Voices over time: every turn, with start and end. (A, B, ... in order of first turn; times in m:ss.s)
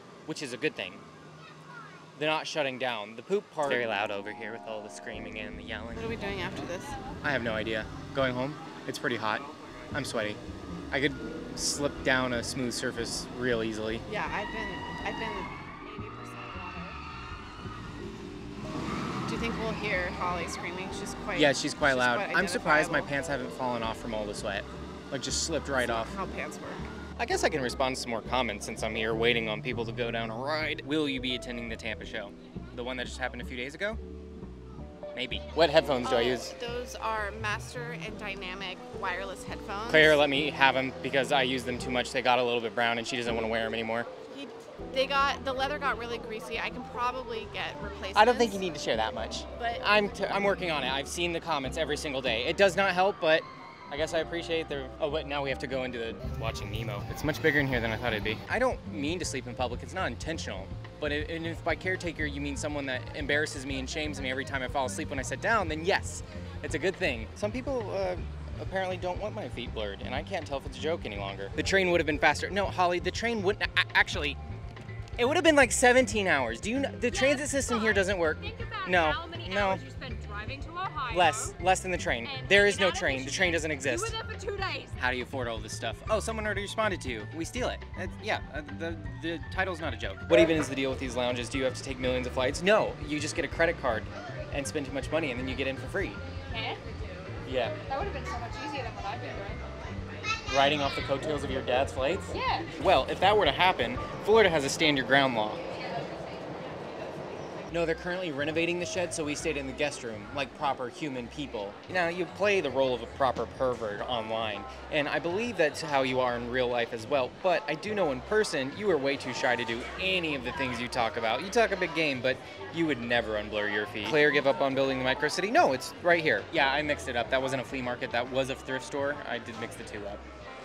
0:00.3-0:01.0 A
0:02.2-0:06.7 A
0:05.9-0:07.0 B
0:07.2-0:10.4 A
0:10.9-0:14.1 A
0:14.1-0:17.0 B
0:19.2-0:23.1 B
0:21.4-0:26.2 A
0:25.7-0:26.9 B
0:27.2-0:34.0 A
0:35.1-0:36.6 A
0:36.0-0:40.3 B
0:39.9-0:44.1 A
0:44.3-0:48.6 B
0:48.2-1:14.4 A
0:49.6-0:49.8 B
1:15.2-1:19.8 A
1:17.1-1:21.6 C
1:21.1-1:24.2 A
1:22.2-1:25.0 C
1:25.0-1:36.2 A
1:36.5-1:36.8 C
1:37.5-1:37.8 A
1:37.9-1:39.6 C
1:39.6-1:40.2 B
1:40.5-1:45.6 A
1:42.3-1:42.7 C
1:47.7-2:10.2 A